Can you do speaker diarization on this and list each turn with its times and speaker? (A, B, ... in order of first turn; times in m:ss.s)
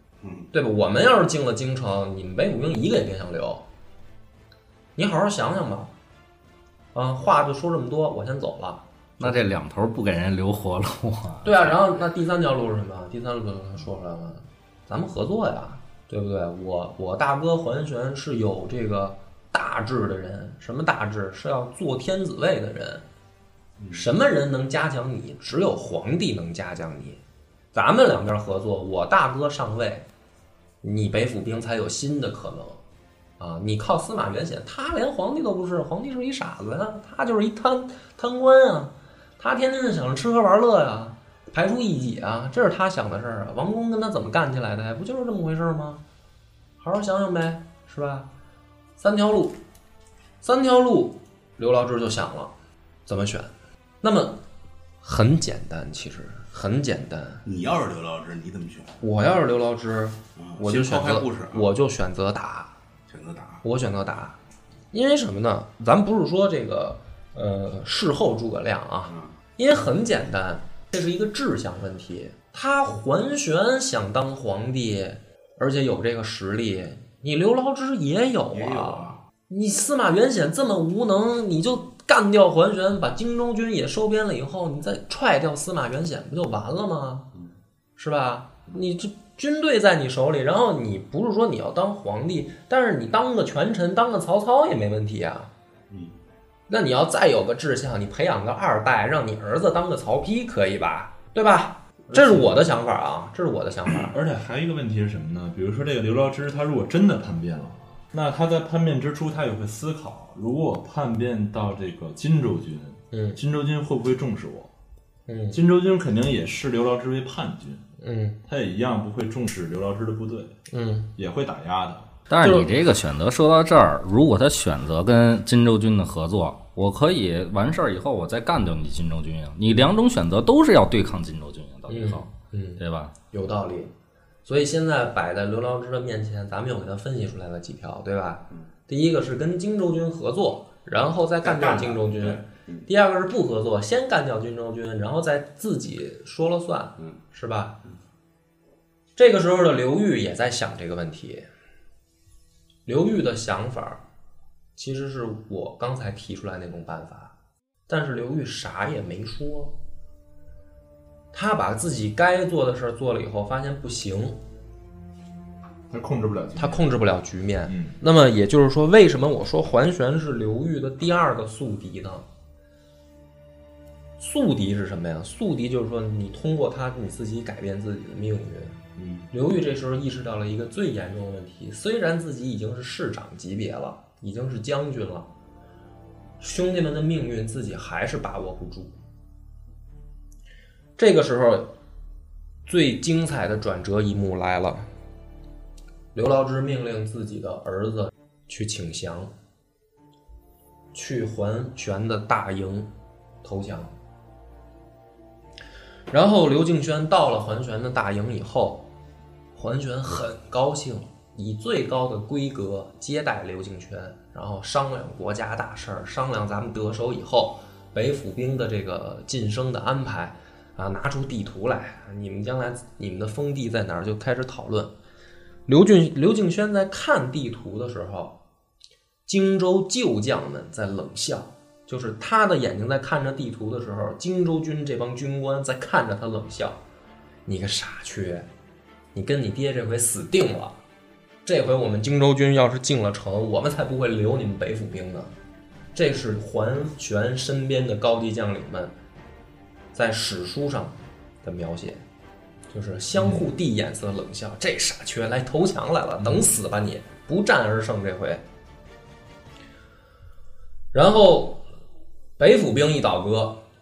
0:00.2-0:00.5 A
0:00.5-0:03.6 B
0:05.0-0:05.9 B
0:06.9-0:09.4 B
0:09.2-0:11.7 C
0:11.4-0:23.0 B
0:23.8-0:24.0 A
0:23.9-0:27.2 B
0:27.7-0:30.0 B
0:30.8-0:32.8 B
0:33.4-0:46.0 B
0:46.8-0:48.3 B
0:49.0-0:49.6 B
0:50.4-0:52.5 B
0:53.1-0:54.4 B
0:55.0-0:57.4 B
0:57.4-0:59.0 A
0:59.0-1:02.7 B
1:00.4-1:01.7 A
1:03.1-1:03.6 A
1:03.6-1:04.4 B
1:04.9-1:27.3 B
1:09.1-1:09.3 A
1:18.5-1:19.2 A
1:28.0-1:35.5 B
1:35.9-1:36.2 A
1:36.7-1:44.1 B
1:42.1-1:42.6 D
1:44.1-1:54.7 D
1:53.1-1:53.4 B
1:55.3-1:55.6 B
1:55.5-1:57.8 D
1:58.0-1:58.4 B
1:58.4-2:00.5 D
2:00.7-2:01.1 B
2:01.2-2:02.1 D
2:02.3-2:12.2 C
2:02.4-2:02.7 B
2:11.9-2:13.9 B
2:12.8-2:13.1 C
2:14.4-2:27.8 B
2:21.4-2:22.9 A
2:29.2-2:31.5 B
2:32.8-2:34.0 B
2:34.8-2:37.3 B
2:37.9-2:39.8 B
2:41.3-2:44.4 B
2:45.9-2:46.9 D
2:46.6-2:52.3 B
2:47.7-2:48.0 D
2:54.2-3:05.3 B
2:59.0-2:59.2 A
3:06.4-3:08.9 B
3:11.0-3:11.7 B
3:12.6-3:14.9 B
3:16.1-3:19.3 B
3:20.9-3:22.9 B
3:23.4-3:23.9 B
3:26.1-3:28.9 B
3:29.5-3:44.9 B
3:45.7-3:48.4 B
3:49.2-3:56.8 B
3:57.4-3:58.5 B
3:59.1-4:00.8 B
4:01.4-4:05.3 B
4:05.9-4:08.9 B
4:09.9-4:12.0 B
4:12.7-4:18.4 B
4:13.2-4:13.4 D
4:16.2-4:16.5 D
4:20.9-4:21.6 B
4:22.4-4:23.6 B